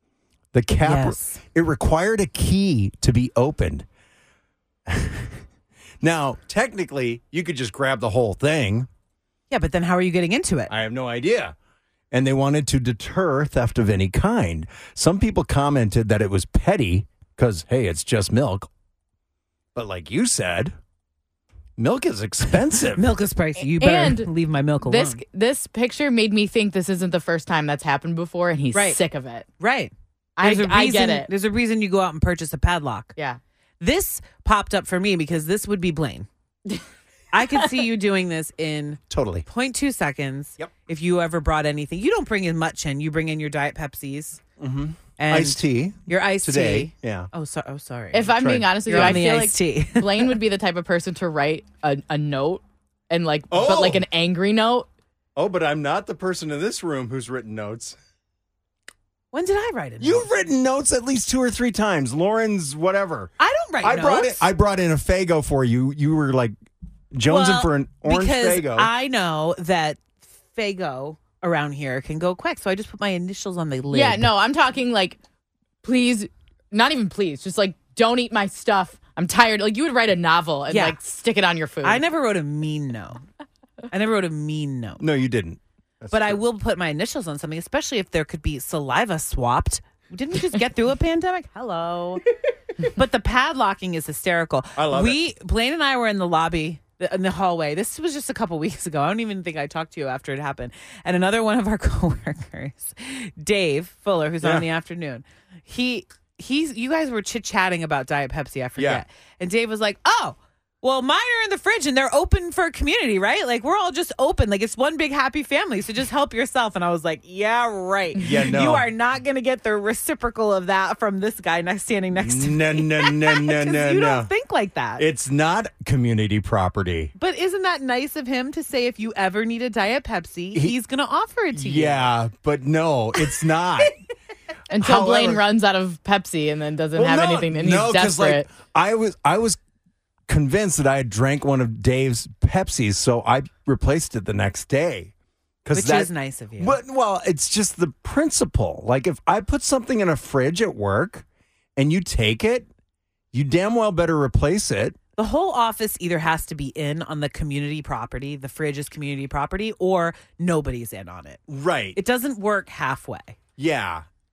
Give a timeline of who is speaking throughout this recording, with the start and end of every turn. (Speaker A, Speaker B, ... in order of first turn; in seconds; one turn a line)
Speaker A: 0.5-3.9
Speaker B: 0.8-1.4
Speaker A: 4.9-5.2
Speaker A: 6.0-8.9
Speaker B: 9.5-10.7
Speaker A: 10.7-11.5
Speaker A: 12.1-18.7
Speaker A: 19.7-20.7
Speaker A: 21.8-23.1
Speaker B: 22.9-25.2
Speaker C: 23.7-24.3
Speaker C: 24.8-29.4
Speaker B: 28.7-29.0
Speaker B: 29.6-33.1
Speaker C: 30.4-31.3
Speaker B: 33.8-36.3
Speaker B: 37.3-44.4
Speaker A: 39.1-39.5
Speaker A: 44.6-47.3
Speaker B: 45.2-50.4
Speaker C: 48.1-54.9
Speaker A: 48.4-49.2
Speaker A: 53.5-54.0
Speaker A: 55.4-58.0
Speaker B: 59.3-60.3
Speaker A: 60.0-66.5
Speaker B: 63.4-64.5
Speaker A: 67.1-68.9
Speaker B: 67.3-74.3
Speaker C: 73.9-75.2
Speaker C: 75.8-82.0
Speaker B: 80.7-81.0
Speaker B: 81.8-83.2
Speaker B: 83.9-85.0
Speaker A: 85.0-86.4
Speaker B: 86.1-92.2
Speaker B: 92.8-125.0
Speaker A: 94.8-95.2
Speaker A: 104.4-104.7
Speaker A: 108.8-109.0
Speaker A: 118.2-118.9
Speaker A: 122.1-124.3
Speaker A: 125.0-127.1
Speaker B: 127.2-132.1
Speaker A: 131.5-133.9
Speaker B: 133.2-133.9
Speaker C: 134.7-138.5
Speaker A: 134.7-135.4
Speaker A: 136.9-139.6
Speaker A: 140.3-145.1
Speaker A: 145.6-151.2
Speaker B: 145.7-146.8
Speaker A: 151.8-152.7
Speaker A: 153.3-155.0
Speaker B: 155.2-161.4
Speaker A: 161.5-162.0
Speaker B: 161.9-163.3
Speaker A: 163.6-164.0